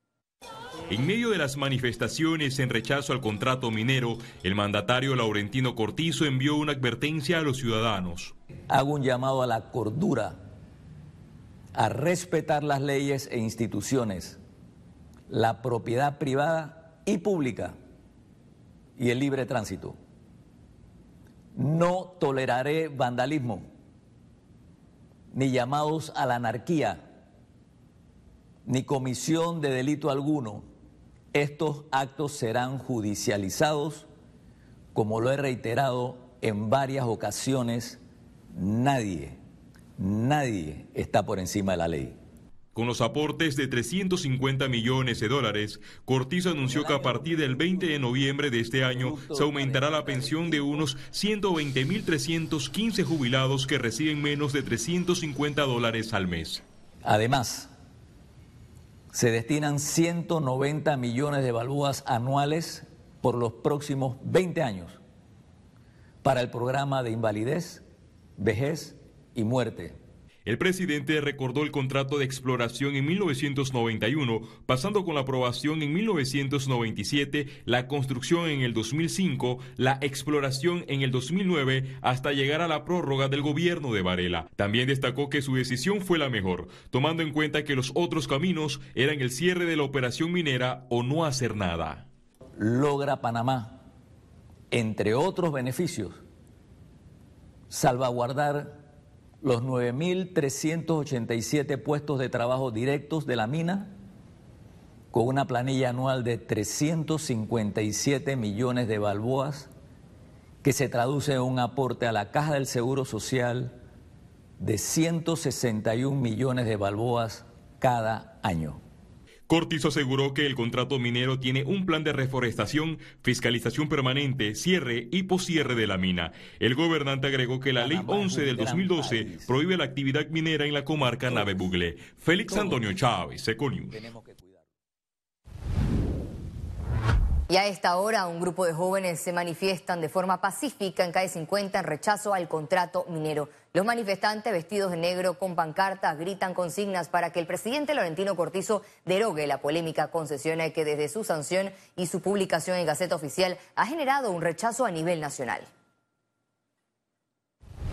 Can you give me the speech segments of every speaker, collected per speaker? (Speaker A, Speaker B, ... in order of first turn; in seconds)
Speaker A: 0.9-8.3, 42.7-56.6, 70.5-92.1, 119.5-134.0
Speaker B: 8.7-10.4, 11.7-14.4, 15.3-17.8, 19.0-20.0, 21.6-23.7, 25.3-27.0, 28.6-30.6, 31.3-34.1, 34.9-38.0, 38.5-39.4, 40.0-42.2, 46.6-48.2, 48.8-50.9, 57.0-57.7, 59.1-65.0, 66.2-67.8, 68.4-70.0, 92.6-93.8, 94.7-96.2, 97.7-98.8, 99.4-103.9, 105.1-109.7, 110.6-113.8, 114.6-118.8, 127.8-129.5, 132.5-132.9, 133.9-134.6
Speaker C: 137.5-155.7